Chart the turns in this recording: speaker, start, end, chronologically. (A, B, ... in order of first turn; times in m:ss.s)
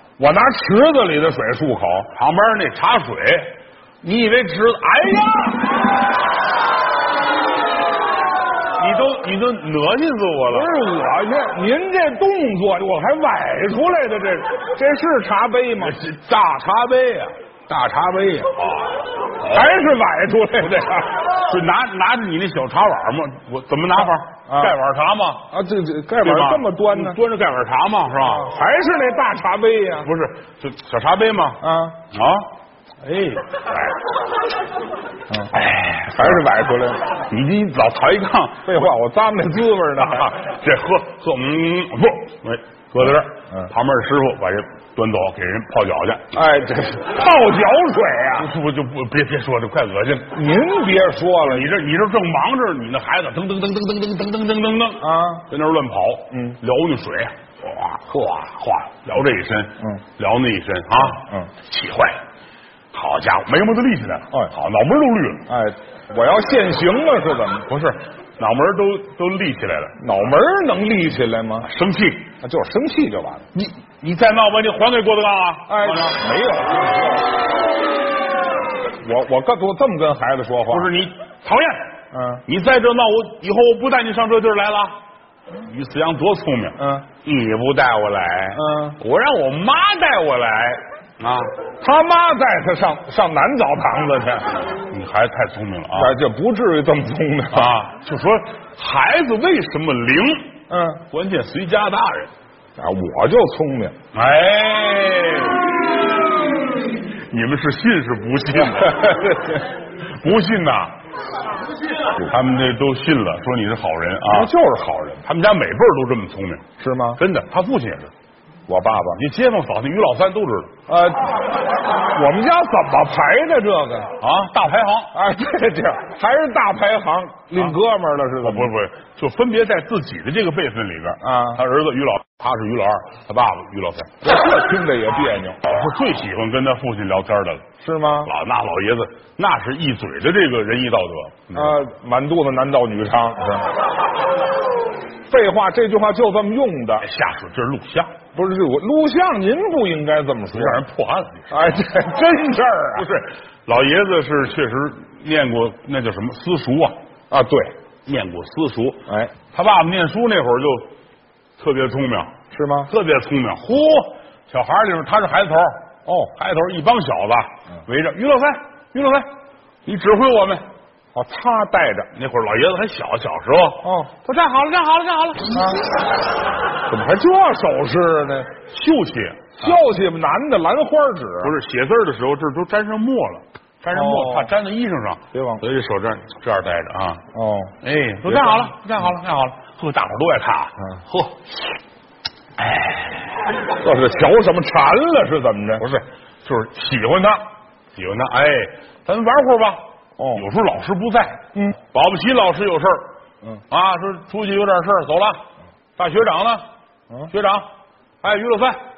0:00.2-0:02.1 A
0:02.1-0:05.8 B
0:08.8-0:10.7 B
0:10.5-0:16.0 A
0:15.8-0:19.6 B
0:19.4-0:21.2 A
0:21.3-0:25.5 B
0:24.5-0:24.8 A
0:25.5-0:27.2 A
0:26.2-0:28.5 B
0:28.2-0:30.1 A
0:30.0-0:32.5 B
0:31.6-0:32.0 A
0:33.0-0:34.0 B
0:35.5-0:36.4 B
0:36.1-0:37.0 A
0:37.1-0:38.9 B
0:38.6-0:40.4 A
0:40.1-0:46.3 B
0:46.3-0:48.5 A
0:48.4-0:50.4 B
0:50.3-0:51.8 A
0:51.4-1:02.2 B
0:55.0-0:55.4 A
0:56.3-0:56.6 A
1:01.1-1:01.5 A
1:02.9-1:05.5 B
1:05.5-1:07.7 A
1:07.7-1:10.2 B
1:10.0-1:11.7 A
1:11.6-1:12.3 B
1:12.4-1:13.5 A
1:13.5-1:16.2 B
1:15.7-1:17.4 A
1:18.9-1:20.9 A
1:20.7-1:21.8 B
1:22.1-1:22.4 A
1:22.4-1:25.0 B
1:25.6-1:31.5 B
1:26.8-1:27.0 A
1:28.5-1:29.0 A
1:31.8-1:34.6 A
1:34.9-1:36.1 B
1:35.9-1:37.8 A
1:37.5-1:40.6 B
1:40.7-1:41.0 A
1:41.1-1:42.3 B
1:42.8-1:44.0 A
1:44.1-1:45.6 B
1:47.3-1:50.9 B
1:48.7-1:49.6 A
1:52.2-1:54.5 B
1:54.3-1:55.2 A
1:55.2-1:58.1 B
1:56.8-1:57.2 A
1:58.7-1:59.2 A
1:59.1-2:00.7 B
2:00.9-2:04.1 A
2:04.2-2:05.1 B
2:05.1-2:08.7 A
2:08.4-2:14.2 B
2:11.2-2:11.6 A
2:14.2-2:15.6 A
2:15.6-2:17.6 B
2:17.8-2:18.3 A
2:18.2-2:21.8 B
2:21.5-2:23.8 A
2:25.3-2:27.0 A
2:27.0-2:28.2 B
2:28.3-2:30.8 A
2:30.5-2:31.6 B
2:31.5-2:33.1 A
2:32.9-2:37.0 B
2:37.3-2:37.7 A
2:38.0-2:40.9 B
2:39.1-2:39.3 A
2:41.6-2:42.3 B
2:42.5-2:42.9 A
2:42.9-2:45.8 B
2:46.0-2:46.3 A
2:46.4-2:49.3 B
2:49.8-2:50.6 B
2:51.1-2:52.1 A
2:52.1-2:55.8 B
2:53.8-2:54.1 A
2:55.5-2:55.8 A
2:56.8-2:58.5 A
2:58.7-2:59.8 B
2:59.6-3:01.5 A
3:01.4-3:07.2 B
3:03.9-3:04.5 A
3:05.3-3:05.6 A
3:07.3-3:07.7 A
3:07.8-3:11.5 B
3:08.3-3:08.6 A
3:12.6-3:13.0 B
3:13.7-3:15.8 A
3:15.8-3:19.8 B
3:20.2-3:20.4 A
3:20.3-3:23.1 B
3:23.7-3:25.4 B
3:26.0-3:26.6 B
3:27.3-3:27.7 B
3:28.2-3:28.8 B